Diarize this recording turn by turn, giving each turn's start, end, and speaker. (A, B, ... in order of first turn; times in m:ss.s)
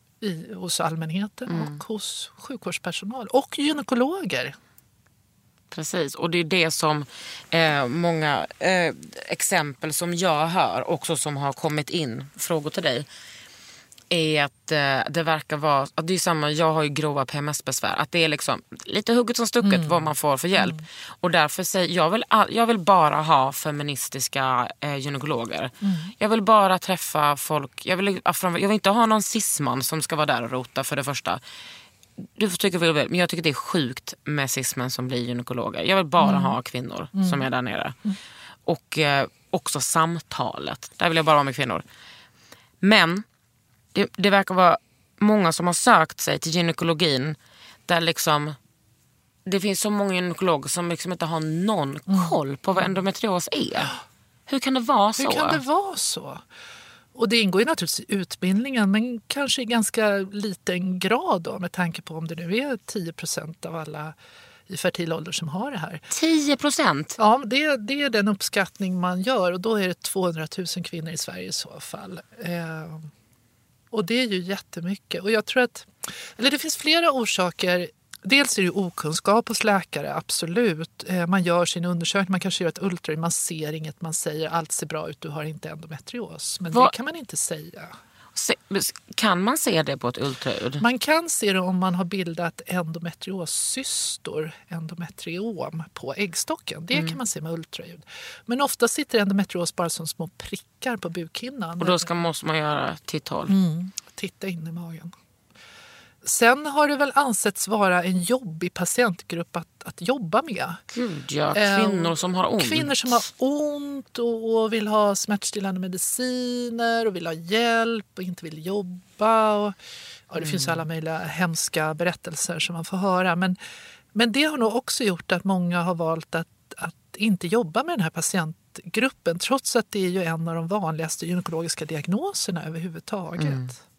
0:00.2-0:04.6 A
0:01.5-0:01.8 B
0:05.7-0:13.0 B
0:14.1-0:31.4 B
0:19.6-0:20.0 A
0:20.6-0:20.8 A
0:25.8-0:26.1 A
0:32.4-0:38.0 B
0:36.2-0:36.6 A
0:37.1-0:37.4 A
0:38.6-0:41.8 B
0:42.8-0:43.2 B
0:43.9-0:48.6 B
0:49.4-0:53.9 B
0:52.1-0:52.9 A
0:54.5-0:55.6 B
0:55.2-0:56.4 A
0:57.1-1:04.2 A
1:04.7-1:06.0 A
1:06.1-1:07.2 B
1:07.2-1:13.1 A
1:13.9-1:27.9 A
1:28.3-1:30.8 B
1:30.8-1:42.1 A
1:36.9-1:37.2 B
1:41.8-1:43.6 B
1:43.5-1:45.1 A
1:46.2-1:50.8 A
1:50.9-1:53.2 B
1:51.5-1:59.8 A
2:00.3-2:03.6 A
2:00.4-2:00.8 B
2:04.1-2:13.8 A
2:13.4-2:13.7 B